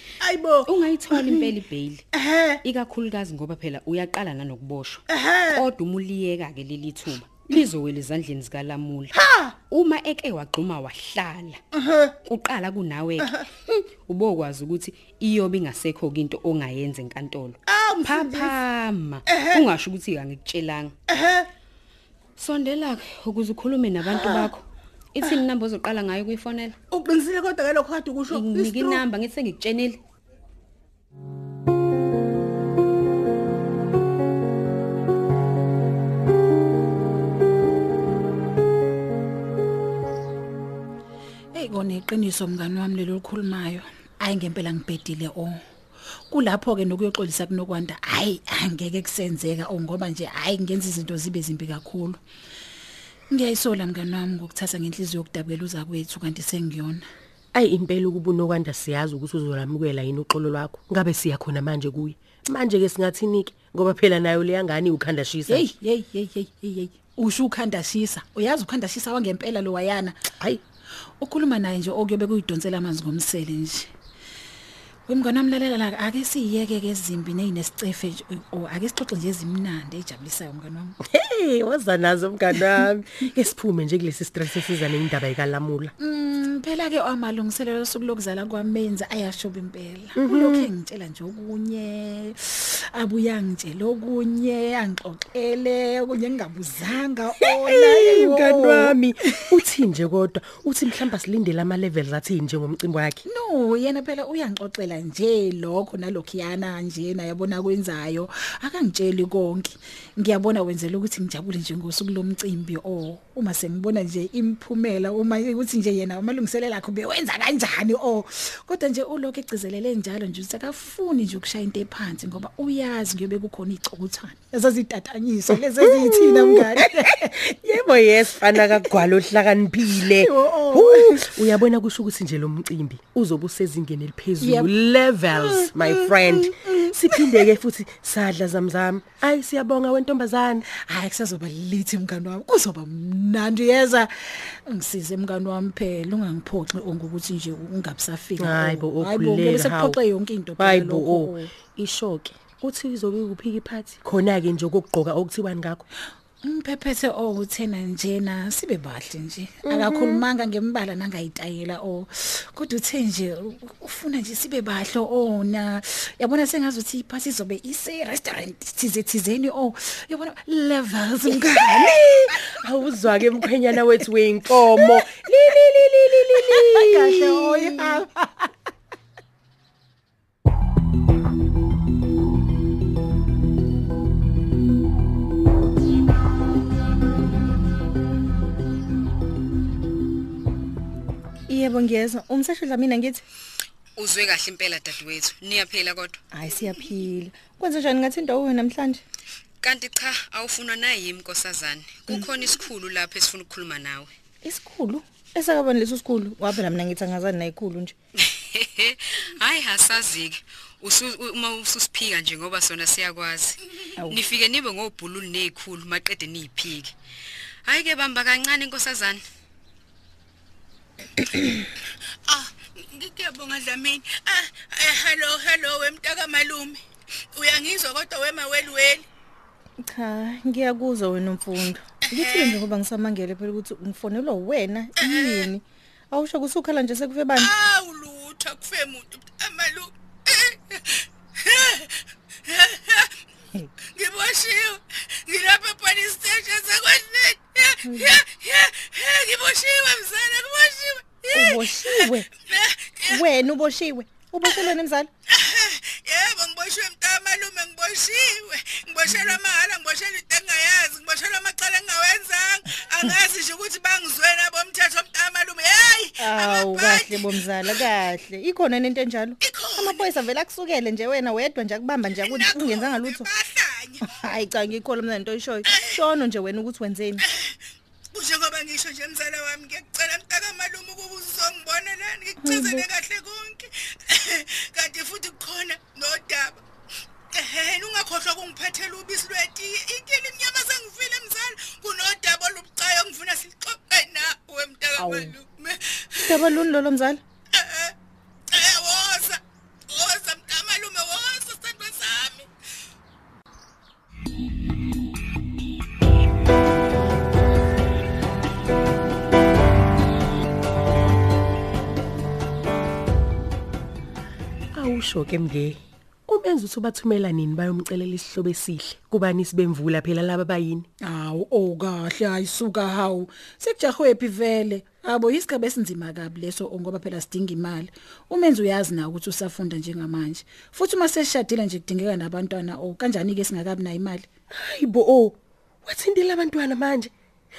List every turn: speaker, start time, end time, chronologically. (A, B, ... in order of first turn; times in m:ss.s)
0:00.2-0:01.5 A
0:00.7-0:02.0 B
0:02.1-0:02.6 A
0:02.6-0:09.2 B
0:05.1-0:05.6 A
0:09.1-0:09.6 A
0:09.7-0:11.6 B
0:11.7-0:12.2 A
0:12.2-0:20.9 B
0:13.2-0:13.5 A
0:17.7-0:18.6 A
0:19.3-0:19.7 A
0:21.1-0:21.5 A
0:22.4-0:26.8 B
0:24.0-0:24.5 A
0:26.9-0:29.0 A
0:28.3-0:30.0 B
0:41.5-0:45.6 C
0:46.3-0:52.2 C
0:53.3-0:57.0 C
0:57.5-1:05.6 D
1:05.5-1:10.2 C
1:11.2-1:13.9 C
1:15.1-1:21.0 C
1:21.0-1:25.9 D
1:26.0-1:39.4 C
1:30.2-1:30.7 D
1:37.4-1:43.2 D
1:43.3-2:07.3 C
2:06.0-2:20.7 D
2:10.2-2:11.3 C
2:14.4-2:14.7 C
2:15.3-2:16.9 C
2:20.7-2:31.5 C
2:28.4-2:30.0 D
2:30.6-2:35.8 D
2:36.4-2:52.4 C
2:39.6-2:40.2 D
2:51.4-2:58.0 D
2:56.3-2:58.5 C
3:11.5-3:13.2 E
3:14.0-3:16.2 B
3:16.3-3:19.0 E
3:19.6-3:24.1 B
3:24.4-3:28.0 E
3:28.2-3:37.0 B
3:37.6-3:39.2 B
3:41.2-3:41.6 A
3:42.3-3:46.8 A
3:47.4-3:49.1 A
3:49.8-3:57.5 E
3:52.1-3:52.7 A
3:55.0-3:55.5 A
3:57.3-4:03.2 A
4:03.8-4:13.3 A
4:07.8-4:08.2 E
4:11.3-4:12.3 E
4:13.1-4:15.1 E
4:14.4-4:14.8 A
4:15.3-4:27.9 A
4:26.2-4:33.3 E
4:29.4-4:30.2 A
4:32.1-4:34.2 A
4:34.0-4:37.2 E
4:35.6-4:36.0 A
4:37.2-4:37.6 A
4:38.1-4:46.6 A
4:42.4-4:42.9 E
4:47.3-4:56.6 A
4:55.0-4:55.4 E
4:56.2-4:57.2 E
4:57.5-4:57.9 A
4:58.5-5:02.5 A
5:14.7-5:20.9 D
5:21.0-5:34.3 C
5:34.5-5:37.1 D